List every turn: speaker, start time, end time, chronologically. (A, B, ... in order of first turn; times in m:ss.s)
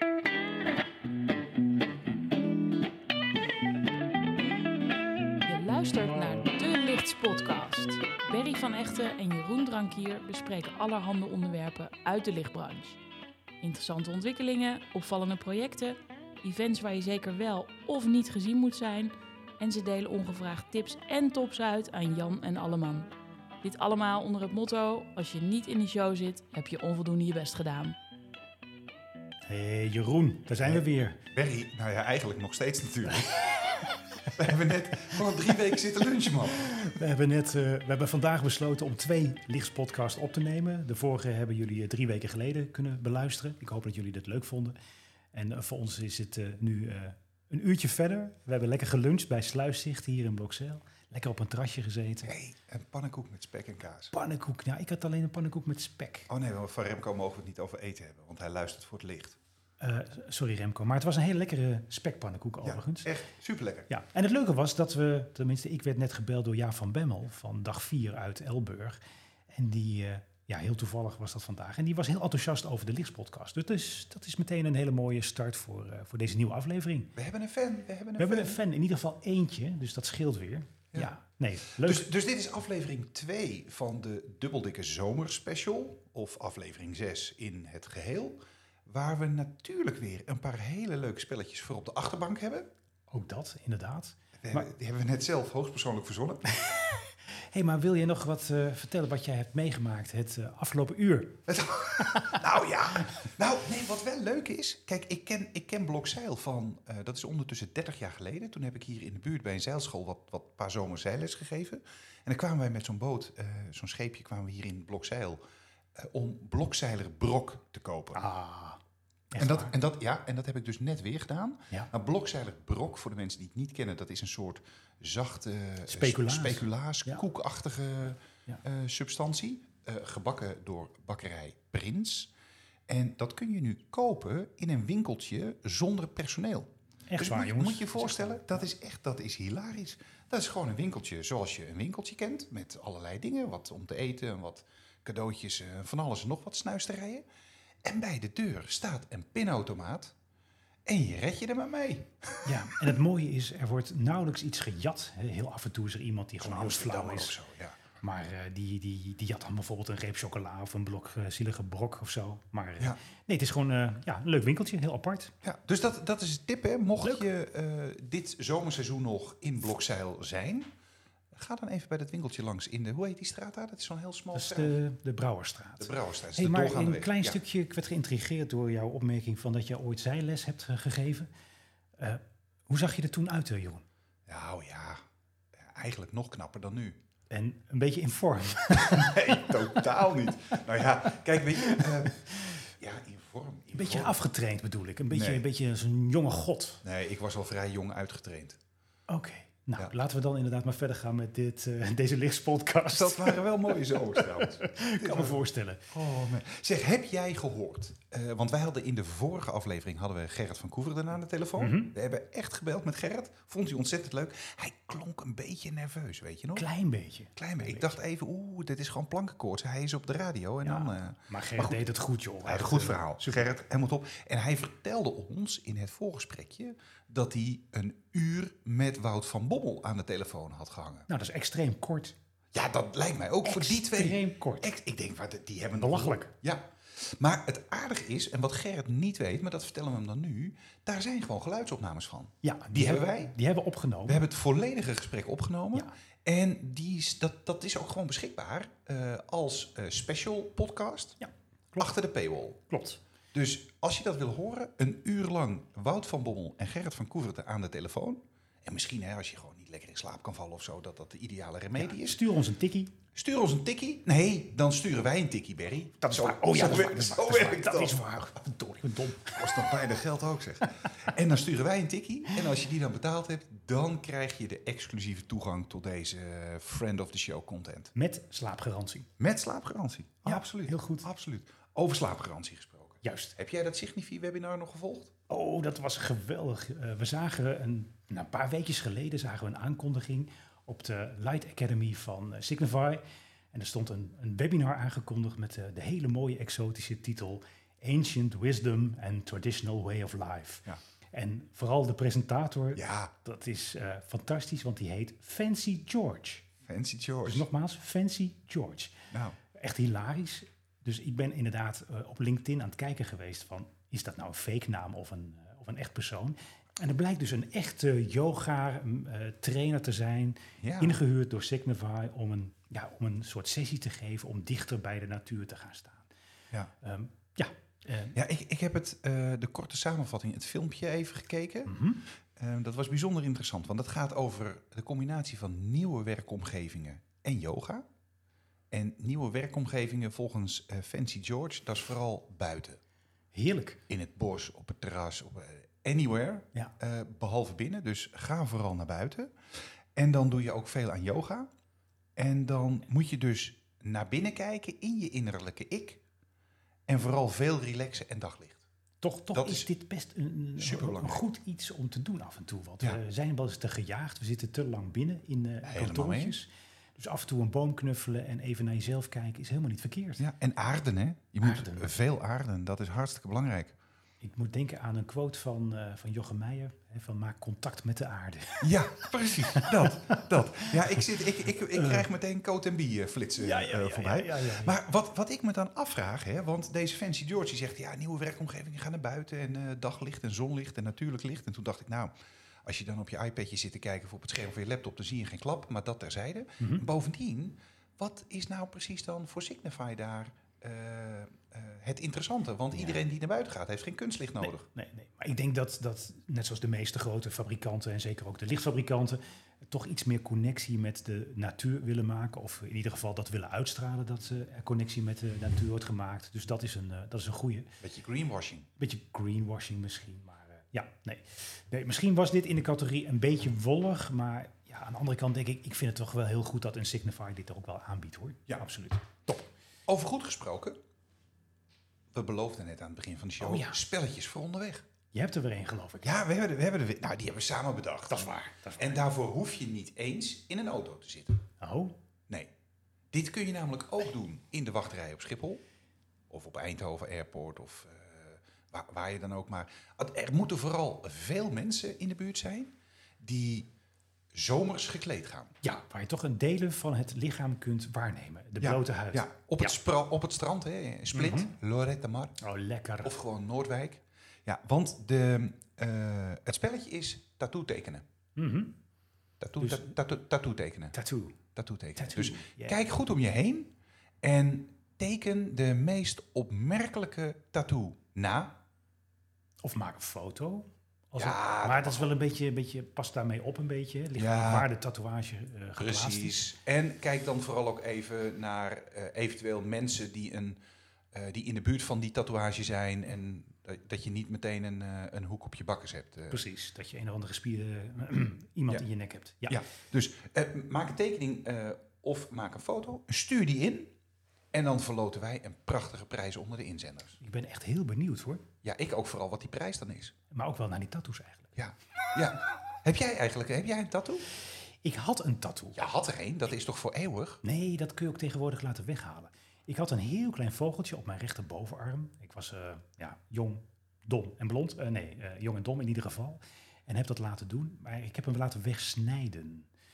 0:05.4-0:13.0 A
0:13.6-0:23.1 A
0:23.6-0:28.0 A
0:29.4-0:31.2 B
0:30.6-0:33.6 C
0:34.2-0:36.9 C
0:36.5-0:44.8 B
0:45.3-0:52.3 B
0:52.2-0:54.1 C
0:54.1-0:56.3 B
0:56.3-0:59.4 C
0:59.8-1:03.1 B
1:02.6-1:03.9 C
1:03.9-1:17.1 B
1:17.2-1:18.6 C
1:18.2-1:22.1 B
1:21.7-1:32.7 C
1:33.1-1:34.7 B
1:34.4-1:36.4 C
1:36.6-1:41.4 B
1:41.5-1:55.4 C
1:55.9-1:58.2 C
1:58.1-1:58.8 B
1:59.3-1:59.7 B
1:59.4-2:12.3 C
2:05.9-2:07.2 B
2:12.9-2:27.2 C
2:17.1-2:18.7 B
2:27.8-2:30.1 C
2:30.8-2:32.9 C
2:32.4-2:37.3 B
2:36.4-2:37.8 C
2:38.0-2:45.3 B
2:45.4-2:50.7 C
2:51.3-2:54.8 C
2:54.3-3:01.3 B
2:55.8-2:57.4 C
3:02.0-3:03.8 B
3:04.3-3:05.0 C
3:05.5-3:07.0 C
3:07.3-3:09.8 B
3:08.7-3:14.2 C
3:11.6-3:12.5 B
3:13.7-3:16.8 B
3:15.1-3:15.4 C
3:16.8-3:18.6 C
3:19.1-3:25.9 B
3:22.9-3:36.7 C
3:31.6-3:31.9 B
3:36.6-3:37.9 B
3:37.4-3:41.8 C
3:40.6-3:43.5 B
3:42.4-3:51.1 C
3:51.1-3:52.2 B
3:52.5-4:03.3 C
3:53.4-3:54.7 B
3:55.8-3:56.3 B
4:02.4-4:04.2 B
4:04.1-4:11.2 C
4:11.2-4:11.9 B
4:11.8-4:12.6 C
4:12.7-4:13.0 B
4:13.3-4:22.2 C
4:21.8-4:22.9 B
4:23.1-4:28.1 C
4:26.0-4:29.7 B
4:29.2-4:37.9 C
4:37.9-4:39.1 B
4:39.2-4:45.1 C
4:40.2-4:41.1 B
4:43.0-4:43.3 B
4:45.3-4:53.0 B
4:53.5-5:06.5 B
5:02.7-5:03.1 C
5:06.6-5:07.5 C
5:07.2-5:26.1 B
5:20.6-5:21.0 C
5:26.8-5:28.2 B
5:28.1-5:31.7 C
5:31.6-5:32.0 B
5:32.3-5:37.8 C
5:38.7-5:42.8 C
5:43.3-5:43.8 B
5:43.9-5:49.3 C
5:49.9-5:51.5 C
5:52.2-5:56.0 C
5:56.9-5:58.6 C
5:59.0-6:10.2 B
5:59.3-5:59.7 C
6:00.6-6:01.2 C
6:05.6-6:06.4 C
6:10.2-6:13.8 C
6:11.4-6:11.9 B
6:14.2-6:22.0 B
6:18.6-6:32.1 C
6:23.4-6:24.8 B
6:32.6-6:44.6 C
6:36.6-6:36.8 B
6:44.4-6:57.7 B
6:57.8-6:58.7 C
6:58.8-7:09.5 B
7:09.9-7:10.8 C
7:12.1-7:14.8 C
7:13.4-7:13.8 B
7:15.1-7:16.2 B
7:16.0-7:21.4 C
7:18.1-7:19.0 B
7:21.6-7:21.9 B
7:23.1-7:25.6 C
7:26.3-7:33.7 C
7:34.3-7:35.5 C
7:35.6-7:39.8 B
7:38.6-7:42.4 C
7:41.1-7:41.5 B
7:42.4-7:43.2 B
7:43.0-7:48.0 C
7:48.4-7:48.7 B
7:49.4-7:50.9 C
7:49.6-7:49.9 B
7:50.9-7:51.4 B
7:51.5-7:53.7 C
7:52.0-7:52.8 B
7:54.2-7:58.6 C
7:59.6-8:06.4 B
8:01.2-8:02.1 C
8:04.2-8:04.7 C
8:05.8-8:10.6 C
8:11.1-8:16.4 C
8:16.3-8:19.6 B
8:19.5-8:23.9 C
8:24.5-8:27.2 C
8:27.2-8:28.4 B
8:28.6-8:30.1 C
8:30.3-8:31.5 B
8:31.6-8:34.2 C
8:34.8-8:35.9 B
8:35.8-8:37.4 C
8:37.4-8:49.7 B